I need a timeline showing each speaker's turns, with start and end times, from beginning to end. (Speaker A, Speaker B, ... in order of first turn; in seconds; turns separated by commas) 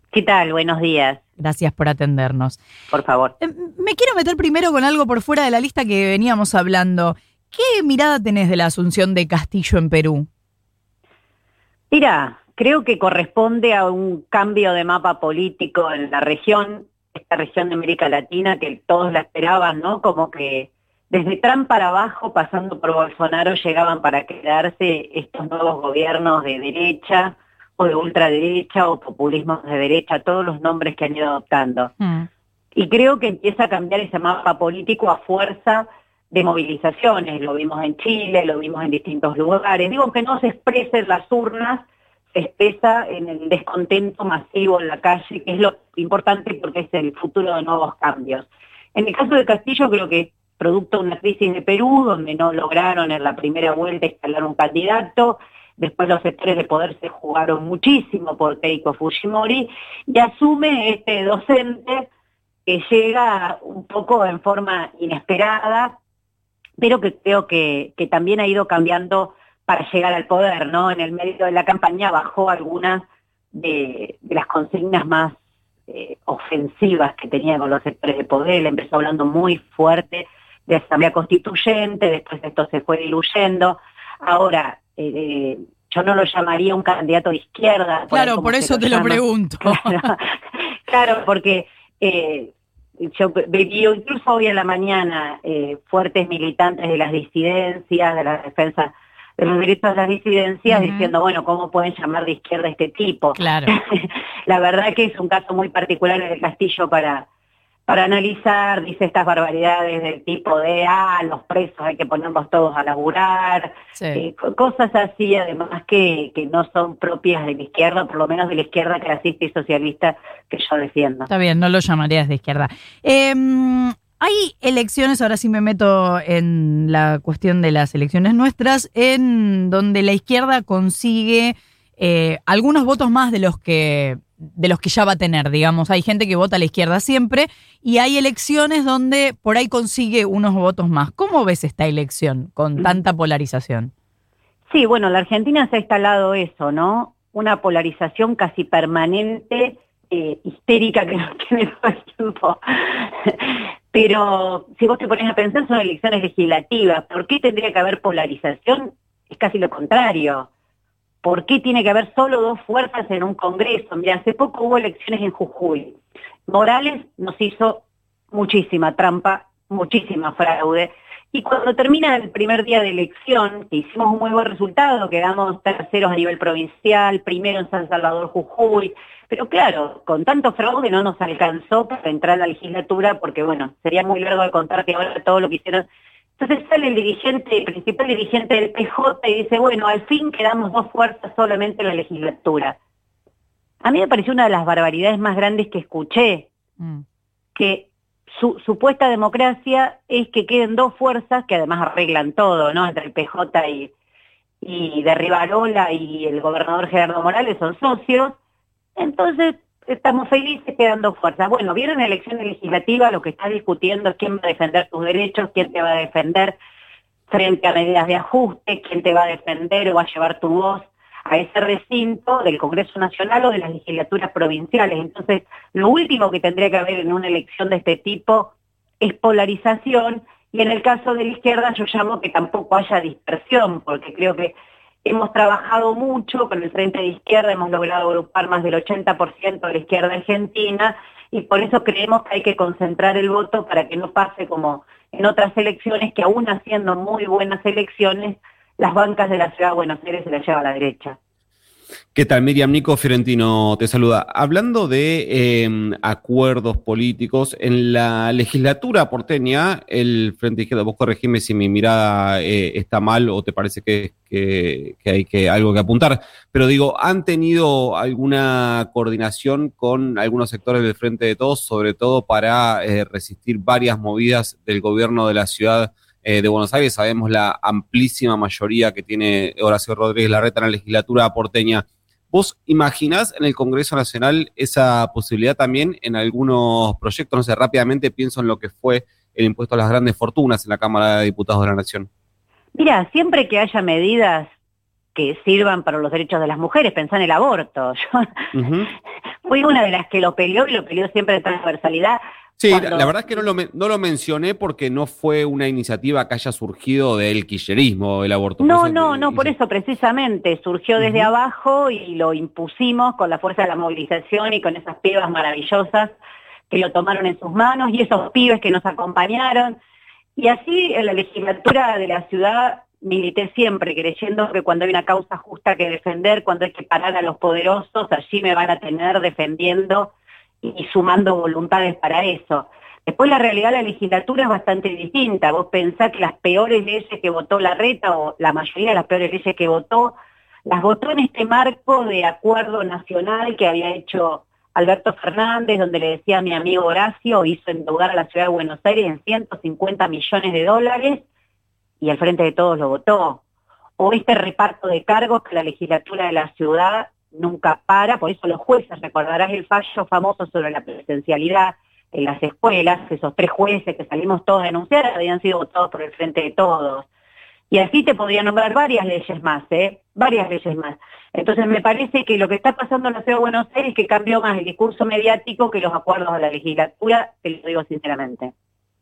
Speaker A: 0.1-1.2, Speaker B: 1.4-2.6, Speaker A: 2.9-3.3, Speaker B: 3.4-10.3, Speaker A: 11.9-31.9, Speaker B: 32.0-32.3, Speaker A: 32.8-62.1, Speaker A: 62.7-66.0, Speaker A: 66.8-75.3, Speaker A: 75.9-90.3, Speaker B: 88.1-90.1, Speaker A: 90.9-107.3, Speaker B: 100.7-101.1, Speaker B: 103.3-103.7, Speaker A: 107.9-121.3, Speaker B: 114.0-114.2, Speaker B: 121.3-143.9, Speaker A: 144.7-160.5, Speaker A: 161.2-166.0, Speaker A: 166.5-185.8, Speaker A: 186.4-192.8, Speaker A: 193.8-196.5, Speaker A: 197.6-203.9, Speaker A: 204.6-208.4, Speaker A: 209.0-216.6, Speaker A: 217.3-251.2, Speaker C: 252.2-292.1, Speaker A: 292.8-294.5, Speaker A: 295.1-298.5, Speaker C: 298.5-298.9, Speaker A: 299.4-303.1, Speaker C: 302.6-309.5, Speaker A: 308.6-316.1, Speaker C: 311.0-311.3, Speaker A: 316.7-319.8, Speaker A: 320.4-330.1, Speaker A: 330.6-351.2, Speaker A: 352.0-353.4, Speaker A: 354.0-367.1, Speaker A: 367.7-378.5